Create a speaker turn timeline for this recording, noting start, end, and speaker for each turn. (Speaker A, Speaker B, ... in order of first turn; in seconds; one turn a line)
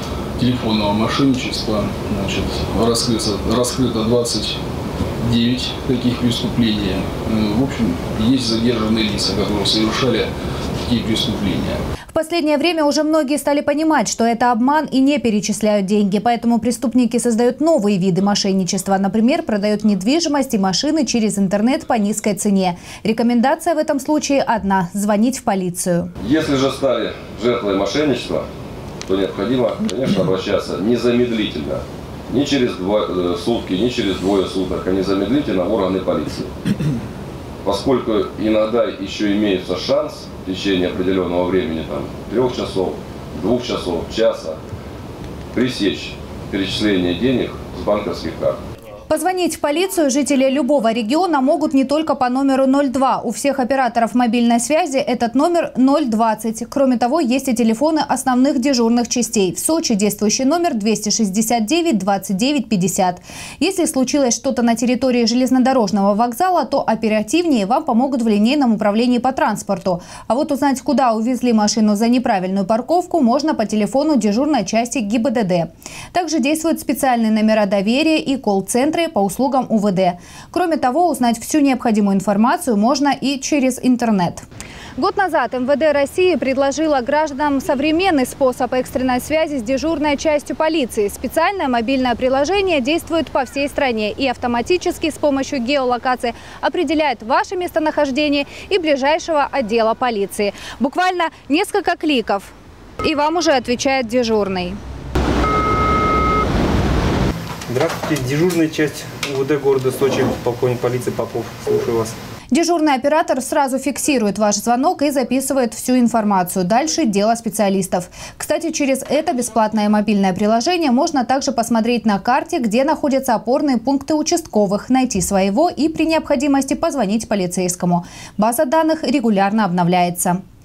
Speaker A: 0.4-4.6
Speaker A: 5.2-10.3
Speaker A: 10.8-11.8
Speaker B: 12.1-26.1
Speaker C: 26.2-28.5
Speaker C: 29.1-36.5
Speaker C: 37.6-44.6
Speaker C: 45.5-48.6
Speaker B: 49.1-84.4
Speaker B: 85.0-104.8
Speaker D: 107.7-112.1
Speaker B: 112.5-130.4